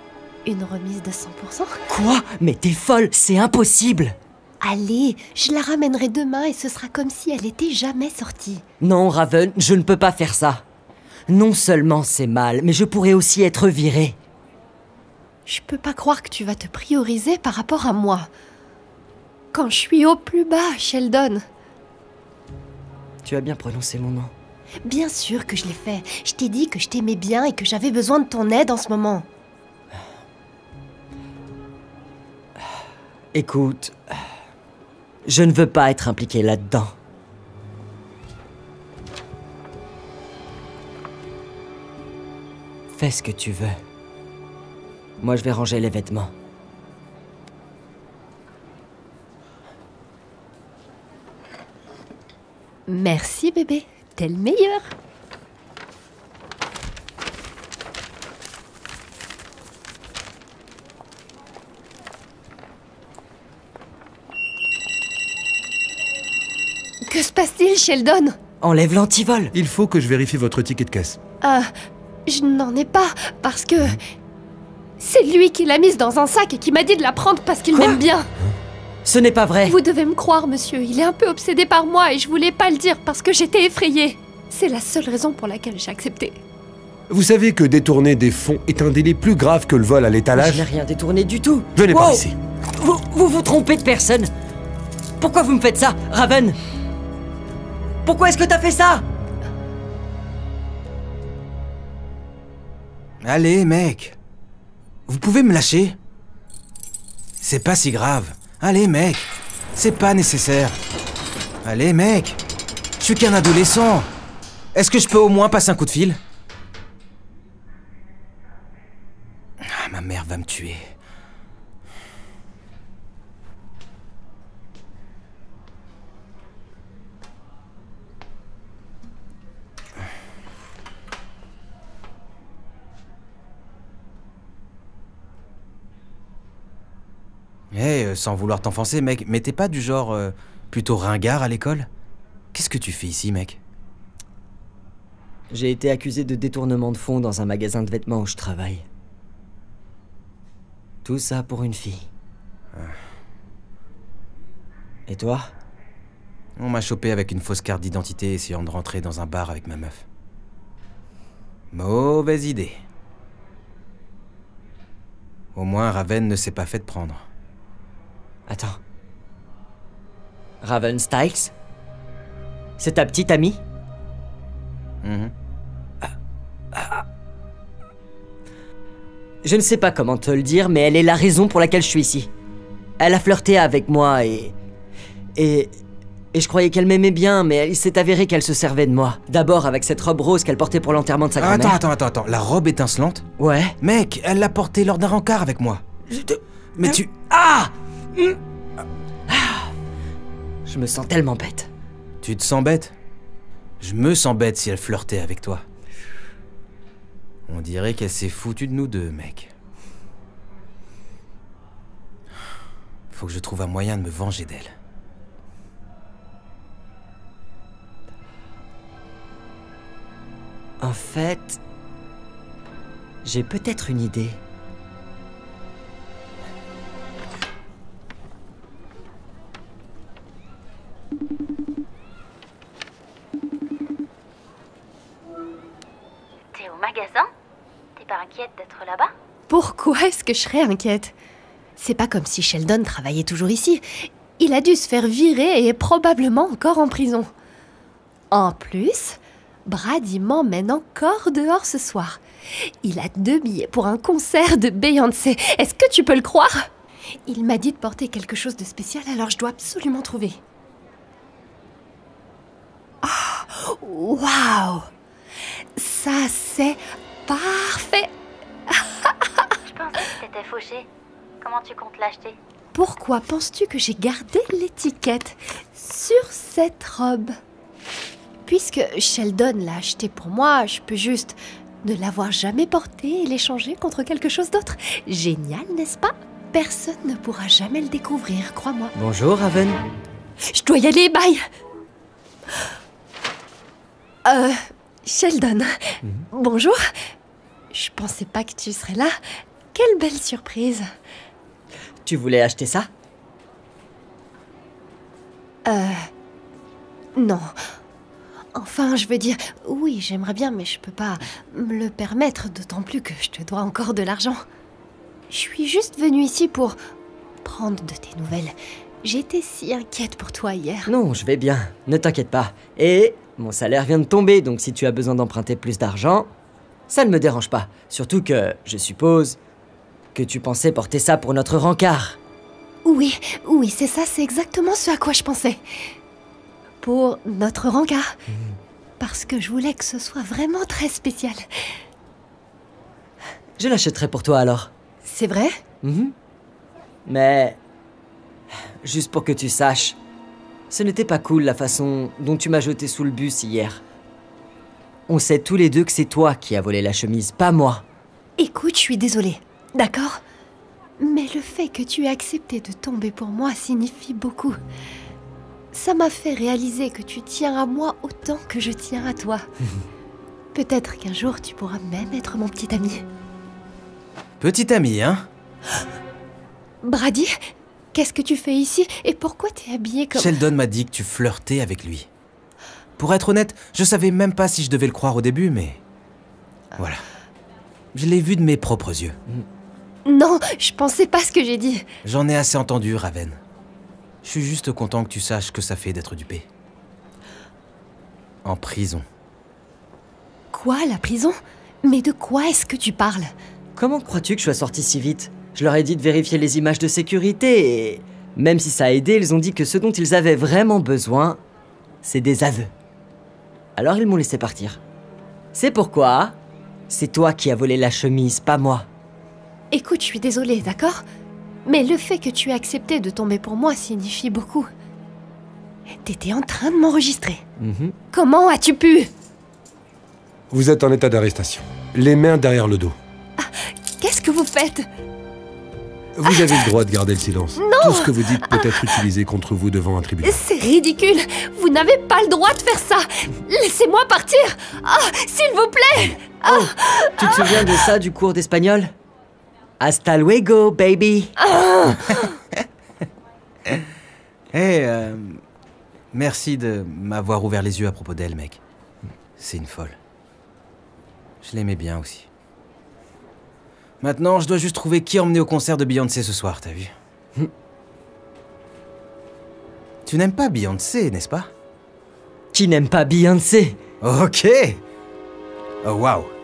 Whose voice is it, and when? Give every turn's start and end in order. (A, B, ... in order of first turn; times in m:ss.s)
0:00.4-0:01.8 A
0:01.9-0:04.2 B
0:04.6-0:08.6 A
0:08.8-0:10.6 B
0:11.3-0:14.2 B
0:15.5-0:18.3 A
0:19.5-0:21.4 A
0:23.2-0:24.3 B
0:24.8-0:29.3 A
0:33.3-0:34.0 B
0:35.3-0:36.9 B
0:42.9-0:43.8 B
0:45.2-0:46.3 B
0:52.9-0:54.9 A
1:07.1-1:08.4 A
1:08.6-1:09.5 B
1:09.5-1:11.2 C
1:11.4-1:11.7 A
1:12.3-1:14.0 A
1:15.0-1:18.3 A
1:17.7-1:18.0 B
1:19.0-1:19.8 B
1:19.7-1:26.4 A
1:27.1-1:30.7 C
1:30.3-1:34.3 B
1:31.8-1:32.3 C
1:35.2-1:36.6 B
1:38.0-1:39.0 B
1:43.2-1:44.2 D
1:45.1-1:46.0 D
1:47.4-1:50.8 D
1:51.6-1:52.4 D
1:53.0-1:54.1 D
1:54.8-1:56.2 D
1:59.7-2:00.9 D
2:17.7-2:21.9 D
2:22.5-2:23.6 D
2:25.5-2:28.8 B
2:31.0-2:32.1 B
2:35.1-2:35.5 B
2:36.6-2:40.0 D
2:41.7-2:42.8 D
2:45.6-2:47.2 D
2:48.5-2:48.8 B
2:50.6-2:51.5 B
2:52.8-2:53.6 B
2:55.0-2:55.3 D
2:56.7-2:57.0 B
2:59.4-3:02.3 B
3:03.0-3:04.5 B
3:05.4-3:05.8 B
3:06.3-3:11.8 B
3:11.4-3:13.3 D
3:13.4-3:13.8 B
3:13.8-3:15.8 D
3:16.1-3:18.4 B
3:16.8-3:17.1 D
3:19.3-3:19.7 B
3:20.7-3:21.7 B
3:22.2-3:22.9 D
3:23.8-3:25.6 D
3:27.5-3:29.5 D
3:33.1-3:34.7 D
3:40.8-3:41.6 B
3:43.2-3:44.4 B
3:56.5-3:57.3 E
3:58.0-3:59.1 E
3:59.5-4:01.1 A
4:01.8-4:07.3 A
4:08.3-4:12.2 A
4:12.8-4:16.6 A
4:17.3-4:20.4 A
4:23.0-4:24.9 A
4:25.8-4:28.1 A
4:28.8-4:29.5 A
4:29.6-4:30.9 E
4:31.4-4:32.4 E
4:32.7-4:37.3 A
4:38.5-4:48.9 A
4:49.0-4:49.8 B
4:50.5-4:51.4 A
4:54.2-4:56.8 A
4:57.7-4:59.2 A
4:59.7-5:00.8 A
5:02.0-5:02.9 B
5:05.6-5:06.1 A
5:07.2-5:07.5 A
5:08.6-5:14.4 A
5:15.3-5:16.8 A
5:17.4-5:20.9 A
5:20.9-5:26.3 B
5:26.9-5:29.4 B
5:30.2-5:32.2 B
5:32.8-5:35.6 A
5:36.8-5:38.2 A
5:38.3-5:38.6 B
5:39.0-5:41.4 A
5:43.6-5:44.7 B
5:45.0-5:45.6 A
5:45.8-5:46.1 B
5:47.1-5:47.6 B
5:48.8-5:50.0 B
5:50.7-5:53.8 B
5:55.1-5:57.8 B
5:58.4-6:00.2 A
6:01.0-6:04.6 A
6:05.7-6:09.4 A
6:10.5-6:13.0 A
6:14.4-6:15.3 D
6:16.8-6:17.4 A
6:17.9-6:20.4 A
6:20.1-6:22.1 D
6:23.0-6:25.8 D
6:26.8-6:27.0 D
6:27.9-6:29.2 D
6:30.0-6:31.9 A
6:32.0-6:33.4 D
6:34.2-6:36.5 D
6:38.4-6:39.0 D
6:40.5-6:43.3 A
6:43.8-6:51.4 B
6:52.0-6:52.7 B
6:53.8-6:54.8 B
6:55.5-6:56.4 B
6:56.9-6:58.9 B
6:59.7-7:01.0 A
7:01.7-7:04.7 A
7:06.0-7:07.4 A
7:07.6-7:08.0 B
7:08.1-7:09.1 A
7:10.5-7:13.0 C
7:13.4-7:14.9 A
7:16.2-7:20.4 C
7:16.3-7:16.6 A
7:17.6-7:19.0 A
7:20.2-7:27.8 A
7:26.5-7:28.9 B
7:29.8-7:31.4 B
7:31.4-7:32.4 A
7:34.5-7:35.4 D
7:36.1-7:38.6 D
7:39.4-7:40.0 D
7:41.4-7:42.3 D
7:44.0-7:46.9 D
7:50.1-7:51.5 D
7:52.5-7:53.8 B
7:54.0-7:54.8 D
7:55.8-7:56.3 D